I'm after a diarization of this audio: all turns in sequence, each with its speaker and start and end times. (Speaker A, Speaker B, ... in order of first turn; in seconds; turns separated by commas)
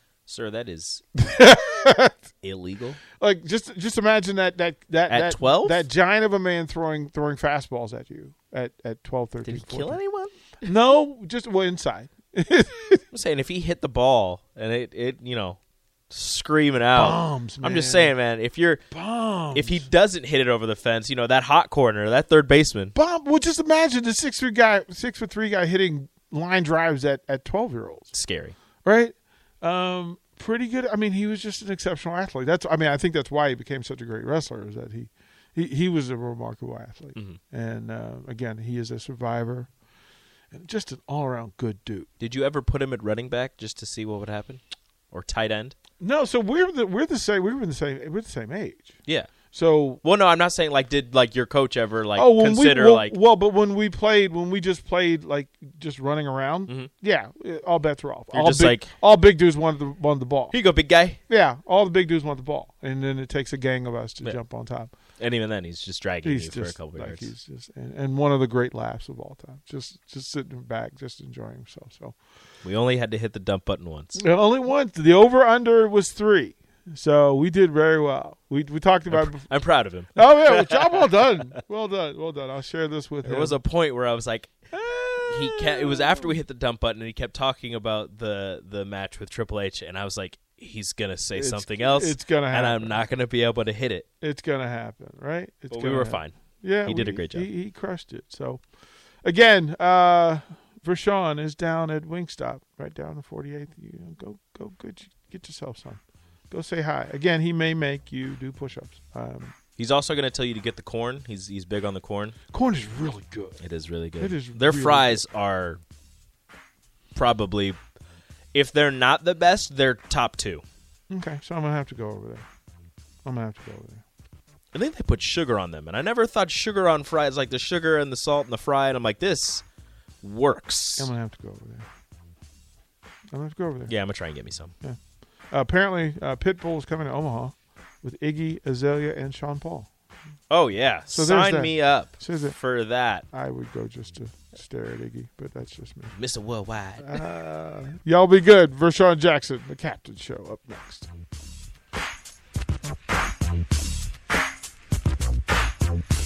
Speaker A: 0.3-1.0, Speaker B: 1.2-2.2, Speaker A: 2.4-3.0, Speaker B: 3.2-10.0, Speaker A: 5.1-5.9, Speaker A: 9.4-10.4, Speaker B: 10.6-13.0, Speaker A: 13.1-15.6, Speaker A: 16.1-18.9, Speaker B: 16.9-18.2, Speaker B: 18.9-19.9, Speaker A: 19.5-22.9, Speaker B: 22.9-28.1, Speaker A: 28.1-28.6, Speaker B: 28.8-39.7, Speaker B: 40.5-42.1, Speaker A: 42.2-45.8, Speaker B: 46.0-49.0, Speaker A: 49.0-49.3, Speaker B: 49.5-50.0, Speaker A: 50.0-53.2, Speaker B: 52.1-60.6, Speaker A: 58.3-58.9, Speaker A: 60.5-61.2, Speaker B: 61.3-64.9, Speaker A: 65.2-67.3, Speaker B: 66.2-72.1, Speaker A: 72.6-74.2, Speaker B: 74.2-79.5, Speaker A: 79.1-81.5, Speaker B: 80.1-83.6, Speaker A: 83.2-84.5, Speaker B: 84.7-86.4, Speaker A: 85.2-94.0, Speaker B: 91.3-93.1, Speaker B: 94.2-98.6, Speaker A: 95.7-97.5, Speaker B: 99.2-109.5, Speaker A: 109.8-112.3, Speaker B: 112.5-113.6, Speaker A: 113.6-115.8, Speaker B: 114.2-115.2, Speaker A: 117.1-117.8, Speaker A: 118.5-120.6, Speaker B: 121.1-122.5, Speaker B: 123.2-124.0, Speaker A: 124.7-129.6, Speaker A: 130.2-131.1, Speaker B: 130.9-131.9, Speaker B: 133.3-134.0, Speaker A: 133.9-134.7, Speaker B: 135.5-139.9, Speaker A: 140.5-143.3, Speaker B: 141.1-142.6, Speaker B: 143.3-146.2, Speaker A: 146.1-147.2, Speaker B: 147.0-151.1